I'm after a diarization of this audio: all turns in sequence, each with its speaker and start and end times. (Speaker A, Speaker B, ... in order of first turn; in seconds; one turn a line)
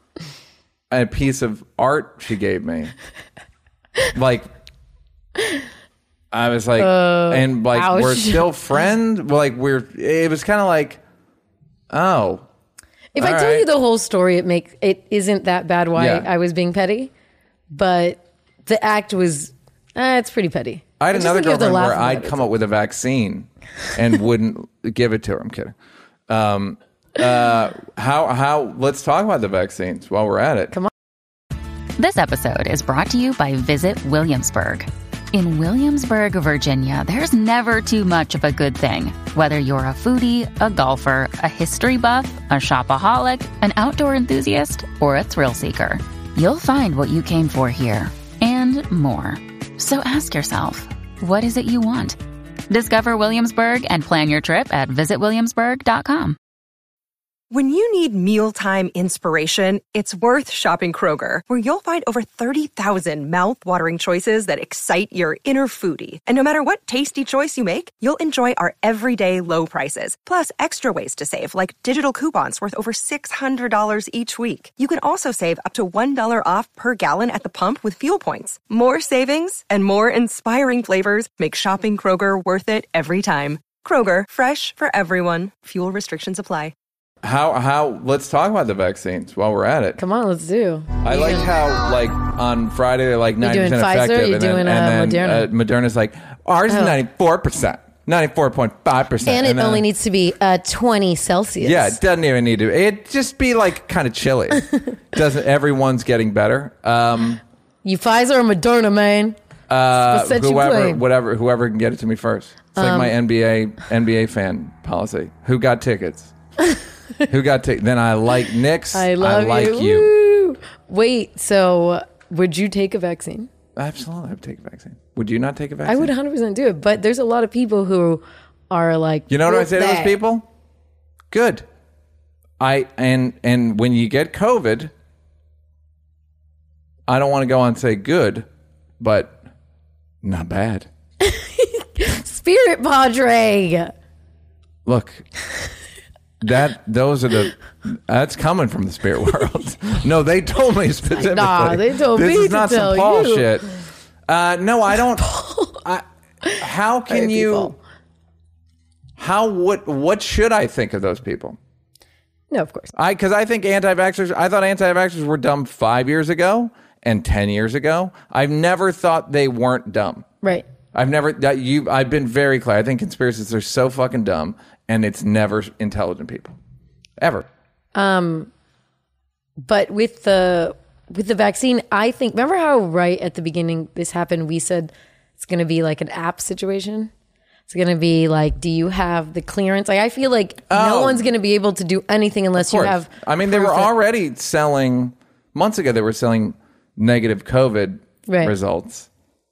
Speaker A: 0.9-2.9
Speaker A: 4.1-4.5
Speaker A: 6.3-11.0
Speaker B: 6.8-8.4
Speaker A: 11.9-12.4
Speaker B: 13.1-17.1
Speaker A: 13.2-13.7
Speaker A: 15.9-16.3
Speaker B: 17.7-22.5
Speaker A: 21.0-25.7
Speaker A: 26.3-30.7
Speaker C: 32.0-52.2
Speaker C: 52.7-56.4
Speaker D: 57.5-86.7
Speaker A: 87.2-90.0
Speaker B: 90.0-91.5
Speaker A: 91.0-99.8
Speaker B: 93.4-95.5
Speaker B: 96.7-97.0
Speaker B: 99.2-102.0
Speaker A: 101.6-107.4
Speaker B: 107.8-109.3
Speaker A: 109.7-116.3
Speaker B: 110.0-111.0
Speaker B: 112.8-113.1
Speaker A: 117.3-120.1
Speaker B: 118.9-123.5
Speaker A: 123.8-126.1
Speaker B: 125.8-130.2
Speaker A: 129.3-130.4
Speaker A: 131.3-131.7
Speaker A: 132.6-134.9
Speaker A: 137.1-138.5
Speaker A: 139.0-139.4
Speaker A: 140.2-140.9
Speaker B: 141.2-143.9
Speaker A: 144.8-145.2
Speaker A: 146.4-153.7
Speaker B: 151.1-153.5
Speaker A: 154.3-156.0
Speaker B: 155.2-155.8
Speaker B: 156.4-157.8
Speaker A: 156.6-157.7
Speaker A: 159.2-161.6
Speaker B: 162.5-162.9
Speaker A: 162.9-170.2
Speaker A: 170.9-176.6
Speaker A: 177.2-177.5
Speaker B: 177.9-178.5
Speaker B: 179.6-187.1
Speaker B: 187.7-193.9
Speaker A: 190.7-191.2
Speaker A: 192.6-199.1
Speaker B: 198.3-198.5